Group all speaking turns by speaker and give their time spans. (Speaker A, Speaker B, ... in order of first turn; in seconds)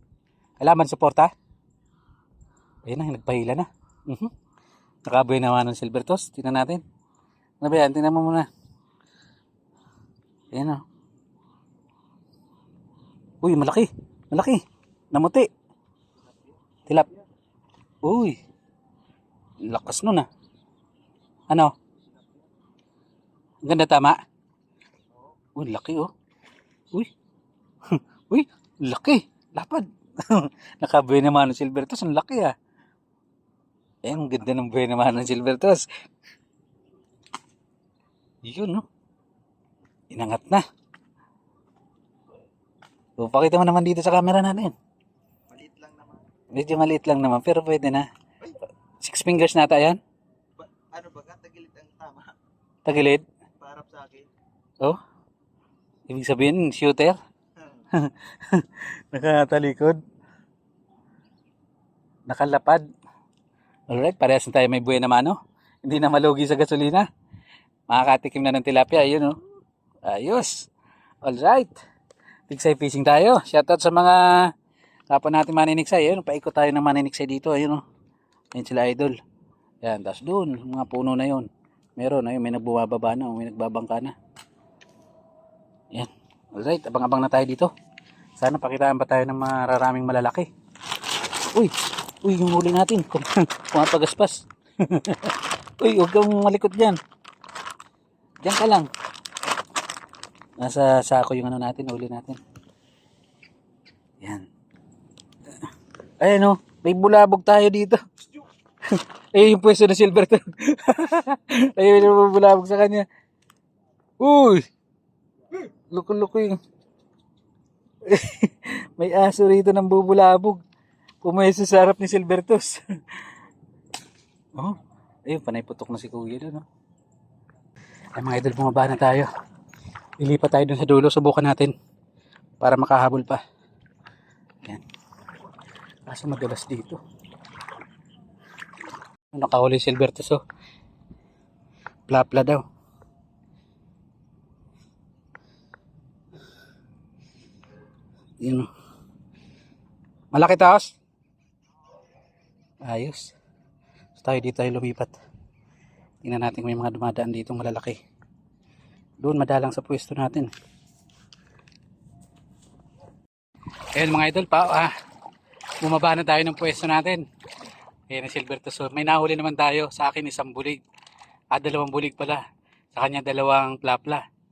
Speaker A: 0.6-1.3, 2.8-4.3, 5.0-6.8, 7.6-8.5, 10.5-10.8, 13.4-15.5, 16.9-17.2, 18.0-18.4, 19.7-20.3, 23.6-24.2, 25.6-26.1, 27.9-32.5, 34.0-35.9, 38.5-38.8, 40.1-40.6, 43.2-44.7, 46.5-48.0, 49.0-50.0, 52.8-53.2, 56.1-57.2, 57.9-60.0, 62.3-62.8, 63.9-67.1, 67.9-69.4, 70.0-70.7, 71.2-71.8, 72.5-74.5, 75.1-77.8, 78.5-79.2, 79.8-84.2, 85.9-87.7, 88.4-90.5, 91.5-97.0, 98.4-98.9, 100.6-102.4, 104.2-104.5, 106.2-108.0, 108.9-113.0, 114.2-114.6, 115.6-116.6, 118.0-120.6, 121.2-123.2, 124.5-126.7, 128.2-129.3, 130.2-131.7, 132.6-133.4, 136.1-137.0, 139.3-140.4, 142.1-142.6, 148.4-148.7, 150.3-150.9, 152.8-153.3, 154.2-155.1, 156.2-158.0, 159.2-160.5, 163.9-164.9, 165.8-167.2, 168.1-170.8, 171.5-172.4, 172.9-174.2
Speaker B: 45.5-46.3, 50.6-52.3, 53.6-54.3